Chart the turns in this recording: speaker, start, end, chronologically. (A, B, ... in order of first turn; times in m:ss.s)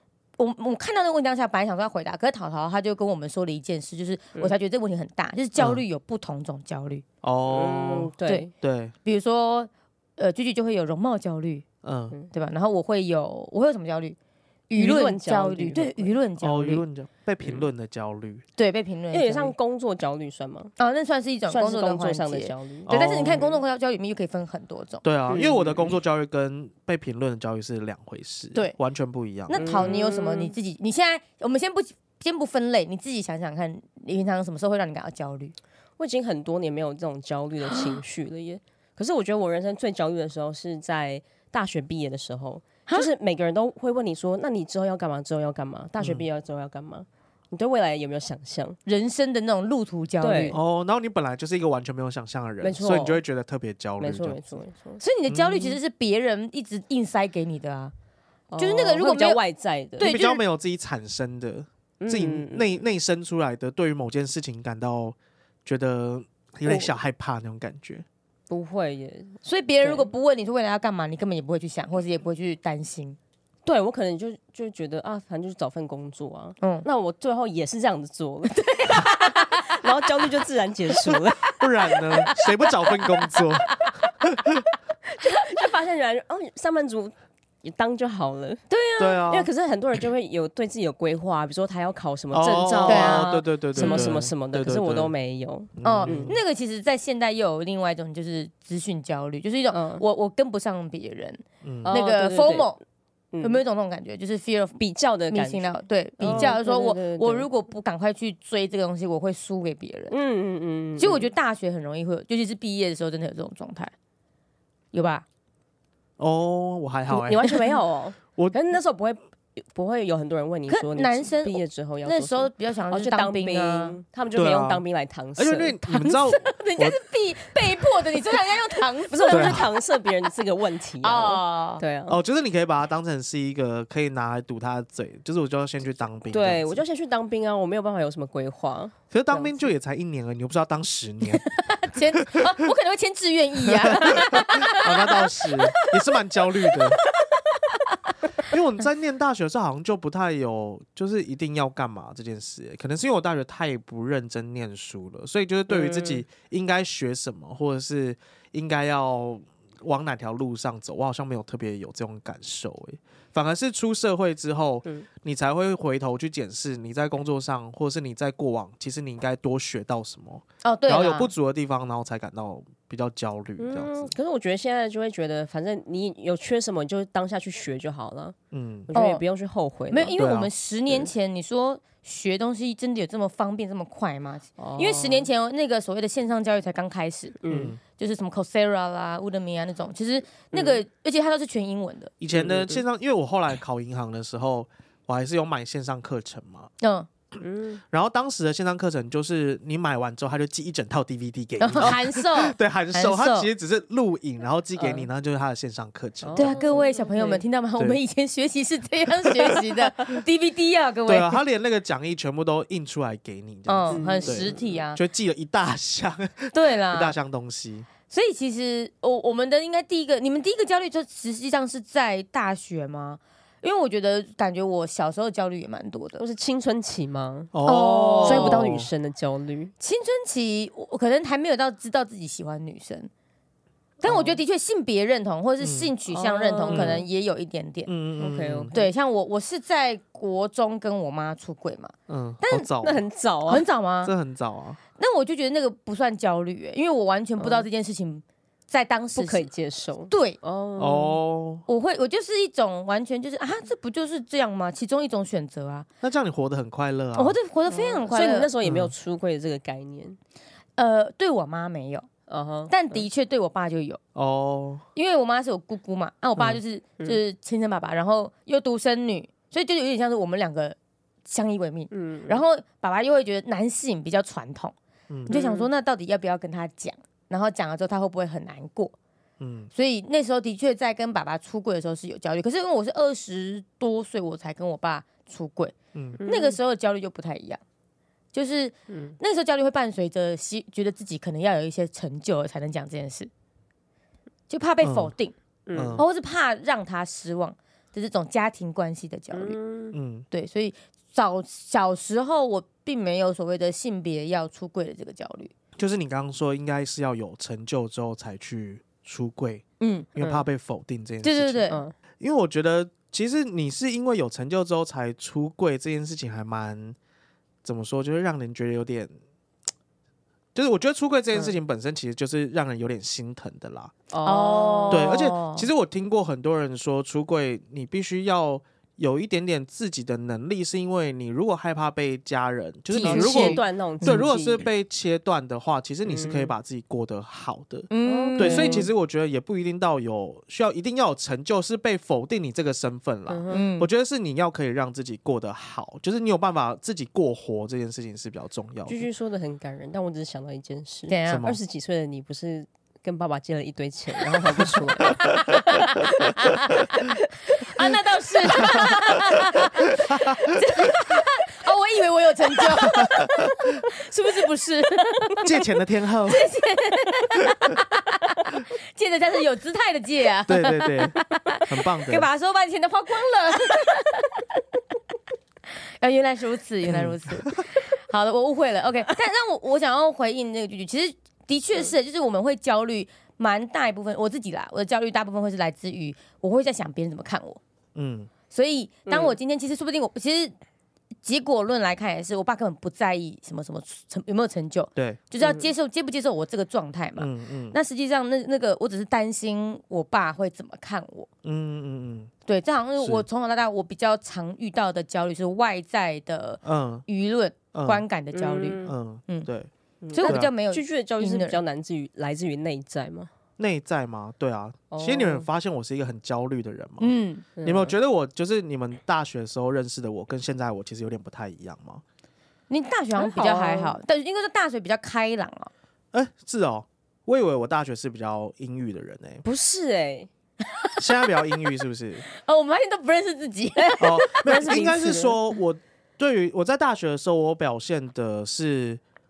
0:00.4-0:07.0 A
0:07.2-0:08.9 B
0:07.5-0:08.5 C
0:09.0-0:11.6 A
0:11.8-0:12.1 B
0:12.3-0:14.2 A
0:14.7-0:16.8 A
0:14.8-0:16.1 C
0:16.4-0:18.4 B
0:18.6-0:19.5 A
0:19.1-0:20.7 C
0:20.8-0:25.0 A
0:21.5-0:23.6 C
0:22.9-0:23.4 B
0:25.0-0:29.6 B
0:25.3-0:25.9 C
0:29.5-0:35.5 A
0:29.5-0:30.5 C
0:36.0-0:48.8 C
0:46.0-0:46.2 B
0:48.8-0:50.6 A
0:50.2-0:50.6 C
0:50.5-0:54.4 B
0:52.6-0:53.2 C
0:54.0-0:55.0 C
0:55.0-0:57.9 A
0:55.3-0:55.8 B
0:58.5-1:00.2 C
0:58.6-0:59.4 A
1:00.0-1:00.4 A
1:00.0-1:08.0 B
1:02.0-1:02.8 C
1:06.7-1:06.9 C
1:08.5-1:10.1 C
1:09.4-1:13.2 A
1:13.6-1:21.6 C
1:16.6-1:16.9 A
1:18.6-1:19.6 A
1:21.6-1:24.6 B
1:25.1-1:28.6 C
1:28.7-1:29.2 A
1:29.0-1:29.5 B
1:29.3-1:36.3 C
1:32.3-1:35.1 B
1:32.8-1:34.2 A
1:35.8-1:36.4 B
1:35.8-1:42.8 A
1:39.7-1:40.0 C
1:41.6-1:41.9 B
1:41.8-1:42.7 C
1:43.3-1:43.6 C
1:43.4-1:50.1 A
1:44.8-1:47.5 C
1:46.2-1:46.5 B
1:50.1-1:51.3 C
1:51.0-1:53.9 A
1:54.9-1:55.2 A
1:56.2-1:57.6 B
1:57.1-2:05.8 C
2:00.7-2:04.0 A
2:04.3-2:04.8 B
2:05.4-2:07.0 B
2:05.9-2:09.6 A
2:09.1-2:12.2 C
2:09.3-2:09.7 B
2:11.0-2:11.8 A
2:12.1-2:16.8 B
2:16.3-2:19.6 C
2:19.1-2:21.4 B
2:21.4-2:25.9 A
2:22.2-2:22.6 B
2:23.7-2:27.0 B
2:28.4-2:54.1 B
2:35.7-2:36.2 C
2:50.6-2:51.3 A
2:53.6-2:58.4 C
2:58.5-2:58.9 B
2:58.9-3:00.2 C
2:58.9-2:59.2 A
2:59.9-3:12.1 A
3:00.2-3:00.5 B
3:04.6-3:05.3 C
3:07.4-3:07.8 C
3:07.5-3:07.8 B
3:10.5-3:10.8 C
3:12.2-3:16.7 B
3:12.3-3:12.8 C
3:16.8-3:17.1 A
3:17.4-3:17.8 C
3:17.9-3:26.6 B
3:21.6-3:23.5 A
3:24.8-3:25.1 C
3:26.2-3:27.4 C
3:26.4-3:31.4 A
3:31.1-3:37.9 B
3:33.7-3:35.0 A
3:33.9-3:34.6 C
3:36.5-3:37.1 A
3:38.1-3:46.2 A
3:46.2-3:49.7 C
3:47.5-3:48.9 B
3:47.6-3:48.7 A
3:49.8-3:53.1 A
3:54.0-3:57.9 A
3:54.0-3:54.4 C
3:55.6-3:55.9 B
3:56.1-3:57.0 C
3:56.7-3:57.0 B
3:57.9-3:58.7 B
3:58.2-3:58.9 C
3:58.7-4:02.7 A
4:02.1-4:03.0 B
4:02.8-4:03.7 C
4:03.5-4:04.1 A
4:04.0-4:04.8 B
4:05.0-4:09.5 A
4:07.4-4:07.7 C
4:09.1-4:11.2 C
4:10.1-4:10.4 A
4:10.8-4:11.6 B
4:11.7-4:15.9 A
4:16.0-4:17.4 B
4:17.1-4:18.5 A
4:17.7-4:20.2 C
4:18.6-4:18.9 B
4:20.8-4:22.1 A
4:22.3-4:23.0 C
4:22.7-4:24.0 A
4:24.2-4:24.8 B
4:24.9-4:34.7 A
4:31.9-4:32.4 C
4:35.1-4:35.4 B
4:35.3-4:38.9 A
4:35.3-4:35.7 C
4:39.4-4:39.7 B
4:39.7-4:47.6 A
4:45.9-4:46.2 B
4:46.2-4:46.6 C
4:48.3-4:53.3 A
4:48.9-4:49.2 C
4:54.5-4:55.3 A
4:54.8-4:55.1 B
4:55.7-4:56.0 C
4:55.7-4:56.0 B
4:56.0-4:59.6 A
4:59.3-4:59.9 C
4:59.9-5:00.2 B
5:00.3-5:05.5 A
5:05.8-5:09.6 B
5:09.8-5:10.1 A
5:10.1-5:11.6 B
5:10.2-5:10.4 C
5:11.2-5:11.8 A
5:12.2-5:17.0 B
5:17.6-5:19.1 B
5:20.5-5:23.9 B
5:24.1-5:25.1 C
5:24.2-5:25.7 A
5:24.9-5:49.0 B
5:32.9-5:34.2 A
5:33.0-5:34.7 C
5:36.0-5:36.5 C
5:37.9-5:38.9 A
5:38.0-5:38.9 C
5:43.3-5:43.6 C
5:43.5-5:43.9 A
5:48.9-5:55.8 C
5:51.1-5:51.5 A
5:51.3-5:51.6 B
5:55.2-6:05.5 A
5:58.6-5:59.0 B
6:00.1-6:00.6 B
6:02.8-6:03.5 B
6:05.4-6:06.5 B
6:06.3-6:14.4 A
6:10.5-6:12.3 B
6:16.0-6:27.6 A
6:16.9-6:17.6 B
6:27.9-6:28.3 B
6:28.5-6:30.5 A
6:29.1-6:29.4 C
6:31.2-6:41.3 A
6:35.0-6:35.2 B
6:35.4-6:35.7 C
6:37.2-6:37.8 B
6:41.4-6:42.3 B
6:42.5-6:49.5 A
6:43.0-6:43.2 B
6:46.6-6:47.0 B
6:47.7-6:48.0 B
6:48.3-6:48.9 C
6:48.8-6:49.7 B
6:50.0-6:53.3 C
6:50.1-6:51.6 A
6:50.2-6:50.5 B
6:53.6-6:57.1 B
6:54.9-6:55.5 C
6:57.0-6:57.4 A
6:57.6-6:57.9 C
6:57.6-7:02.0 B
7:02.7-7:05.7 A
7:03.1-7:04.0 C
7:06.1-7:09.4 B
7:09.4-7:10.3 C
7:11.0-7:12.2 B
7:12.3-7:14.9 A
7:13.8-7:15.4 C
7:14.0-7:19.0 B